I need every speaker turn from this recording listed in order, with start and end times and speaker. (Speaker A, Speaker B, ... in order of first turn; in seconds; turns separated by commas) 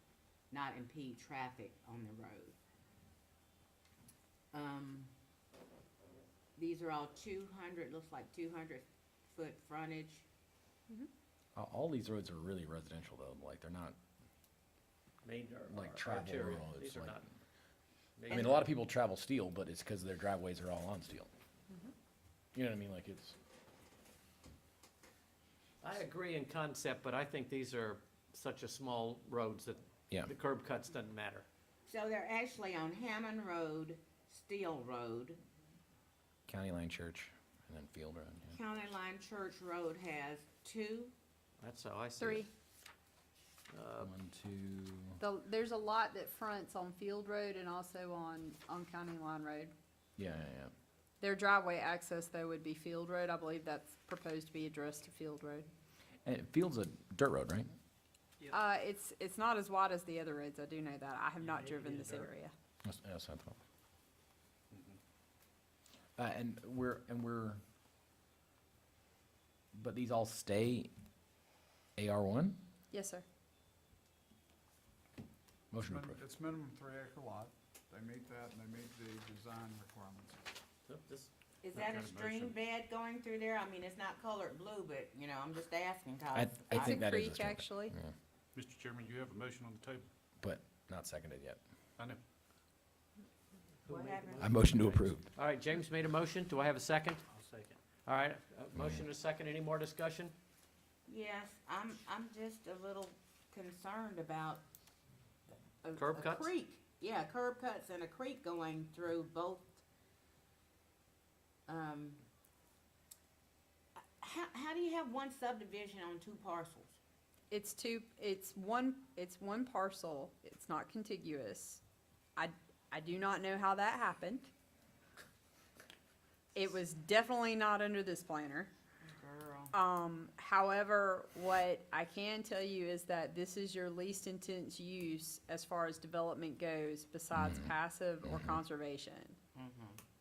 Speaker A: 0.5-2.6, Speaker A: 4.5-5.1, Speaker A: 6.5-10.2, Speaker B: 11.5-13.9, Speaker C: 15.2-17.2, Speaker B: 15.7-17.2, Speaker C: 18.2-18.7, Speaker B: 18.3-21.3, Speaker A: 18.3-18.6, Speaker B: 22.5-23.4, Speaker C: 25.8-31.4, Speaker A: 31.9-35.4, Speaker B: 36.5-38.5, Speaker A: 38.5-41.1, Speaker C: 41.6-42.5, Speaker D: 42.2-42.5, Speaker C: 43.7-44.1, Speaker B: 44.0-45.2, Speaker D: 45.2-49.7, Speaker B: 50.2-50.7, Speaker D: 51.2-55.7, Speaker B: 56.2-57.7, Speaker D: 58.5-62.5, Speaker E: 61.5-62.3, Speaker B: 62.8-63.6, Speaker E: 64.7-65.0, Speaker B: 66.2-67.6, Speaker B: 69.7-70.9, Speaker B: 72.0-72.6, Speaker D: 72.9-73.2, Speaker B: 75.7-76.2, Speaker F: 75.8-80.4, Speaker C: 80.8-81.3, Speaker A: 81.6-87.0, Speaker E: 81.7-82.6, Speaker B: 86.3-88.1, Speaker D: 86.7-87.9, Speaker E: 88.5-90.1, Speaker B: 90.4-91.6, Speaker A: 93.8-94.9, Speaker C: 93.8-97.2, Speaker B: 94.4-95.3, Speaker E: 97.3-97.7, Speaker C: 98.0-100.3, Speaker A: 101.1-104.6, Speaker A: 105.8-109.8, Speaker C: 105.9-106.5, Speaker A: 111.7-112.2, Speaker A: 114.2-117.0, Speaker D: 117.5-121.8, Speaker D: 122.3-124.5, Speaker D: 126.5-128.7, Speaker A: 129.0-129.7, Speaker D: 129.7-139.4, Speaker B: 137.3-137.7, Speaker B: 138.2-138.6, Speaker A: 139.5-140.0